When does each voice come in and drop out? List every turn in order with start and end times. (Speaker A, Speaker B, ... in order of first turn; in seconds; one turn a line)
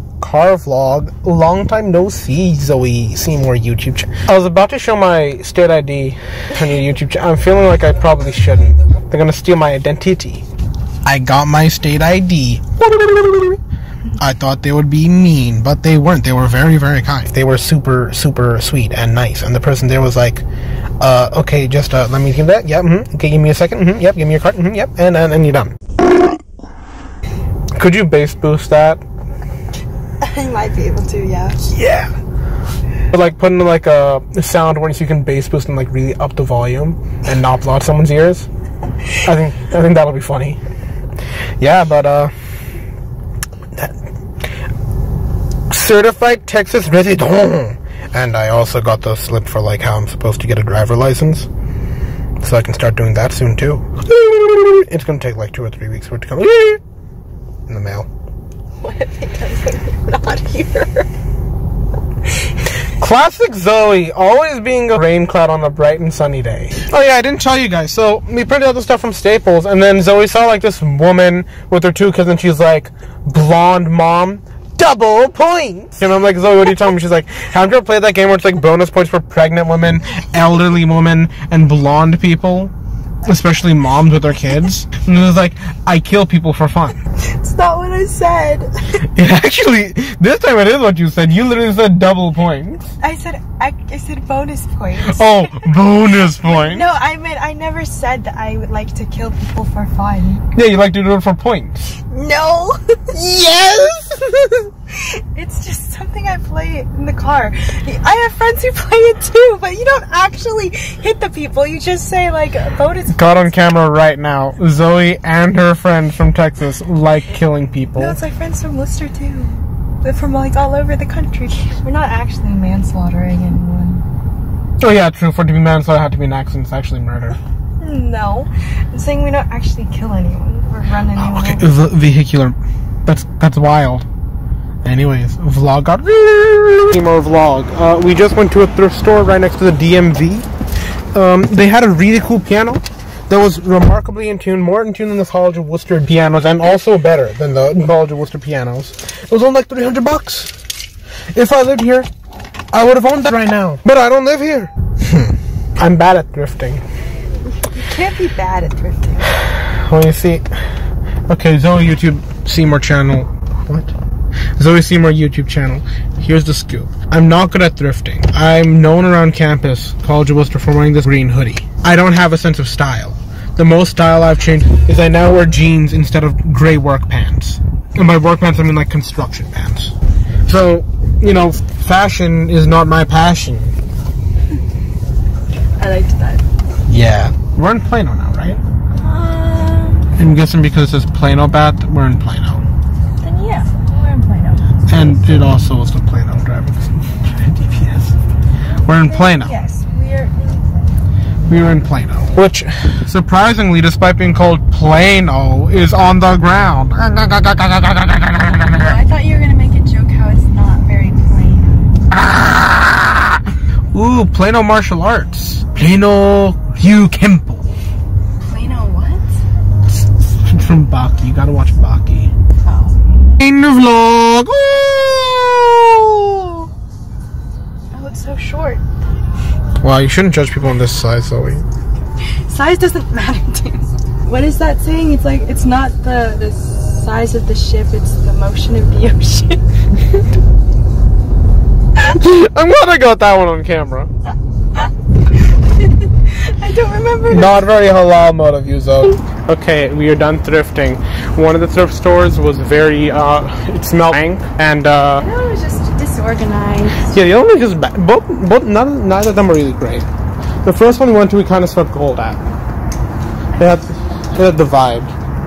Speaker A: 0.2-10.4
Speaker A: 11.0-13.6
Speaker A: 14.2-20.4
Speaker A: 21.0-25.7
Speaker A: 27.7-29.0
Speaker B: 30.2-31.7
Speaker A: 31.7-32.1
Speaker A: 33.1-38.5
Speaker A: 39.2-40.6
Speaker A: 41.6-42.3
Speaker A: 43.7-44.0
Speaker A: 45.7-51.5
Speaker A: 52.4-56.8
Speaker A: 57.7-58.1
Speaker B: 58.8-61.1
Speaker A: 63.0-82.7
Speaker A: 83.2-87.0
Speaker B: 87.2-89.0
Speaker A: 89.0-92.9
Speaker B: 93.0-100.4
Speaker A: 95.0-96.8
Speaker A: 100.5-101.9
Speaker B: 102.1-102.8
Speaker A: 103.1-104.7
Speaker B: 105.3-113.5
Speaker A: 113.1-118.2
Speaker B: 118.0-124.0
Speaker A: 124.8-127.4
Speaker B: 127.8-131.8
Speaker A: 131.1-134.0
Speaker A: 134.8-140.5
Speaker A: 141.1-150.5
Speaker A: 151.3-152.1
Speaker A: 152.7-156.8
Speaker B: 157.6-159.3
Speaker A: 159.5-160.5
Speaker A: 161.3-163.9
Speaker A: 164.6-179.9
Speaker A: 180.4-183.7
Speaker B: 185.8-186.4
Speaker A: 186.9-188.6
Speaker B: 188.9-190.1
Speaker A: 190.2-192.6
Speaker B: 193.2-195.3
Speaker A: 194.9-198.2
Speaker A: 198.8-199.5
Speaker B: 199.0-200.9
Speaker A: 201.5-208.9
Speaker B: 208.8-211.9
Speaker A: 212.1-213.4
Speaker A: 213.9-217.7
Speaker B: 218.5-219.3
Speaker A: 220.4-222.3
Speaker B: 222.6-223.0
Speaker A: 223.4-226.6
Speaker B: 227.9-228.8
Speaker A: 229.8-231.6
Speaker B: 232.4-239.6
Speaker A: 242.0-244.1
Speaker B: 245.7-247.6
Speaker A: 247.3-255.2
Speaker B: 255.2-257.2
Speaker A: 257.1-260.1
Speaker A: 260.6-262.4
Speaker A: 263.6-265.1